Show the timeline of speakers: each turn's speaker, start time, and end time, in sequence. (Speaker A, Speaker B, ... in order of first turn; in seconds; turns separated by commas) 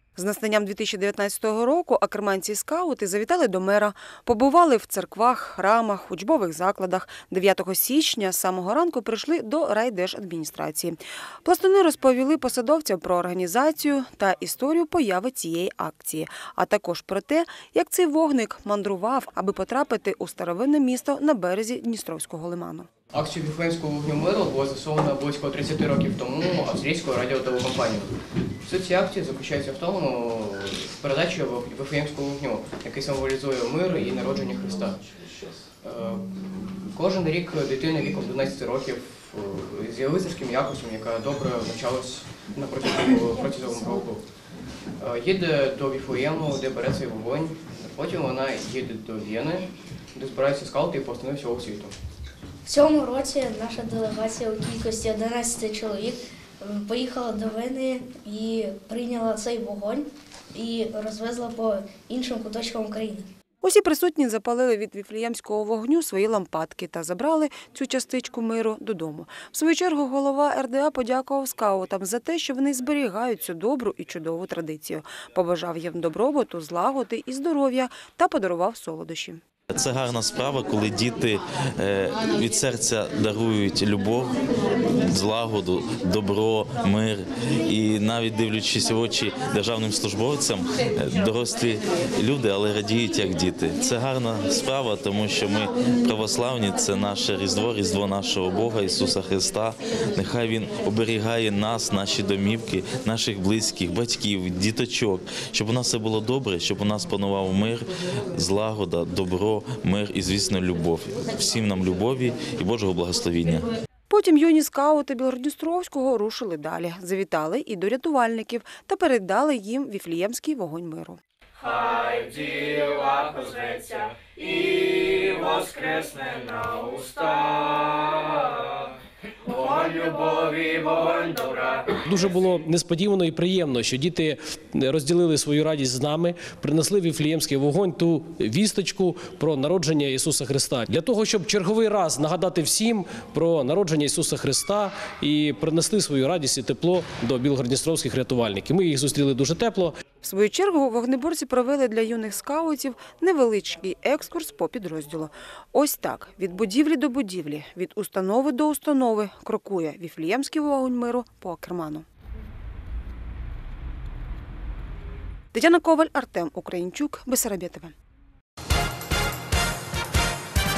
Speaker A: 0.2-22.9, Speaker B: 23.1-44.3, Speaker B: 45.0-52.0, Speaker C: 52.6-63.3, Speaker A: 63.6-79.4, Speaker D: 79.7-113.7, Speaker A: 114.1-121.2, Speaker E: 132.0-150.0, Speaker A: 150.2-162.1, Speaker A: 165.5-167.9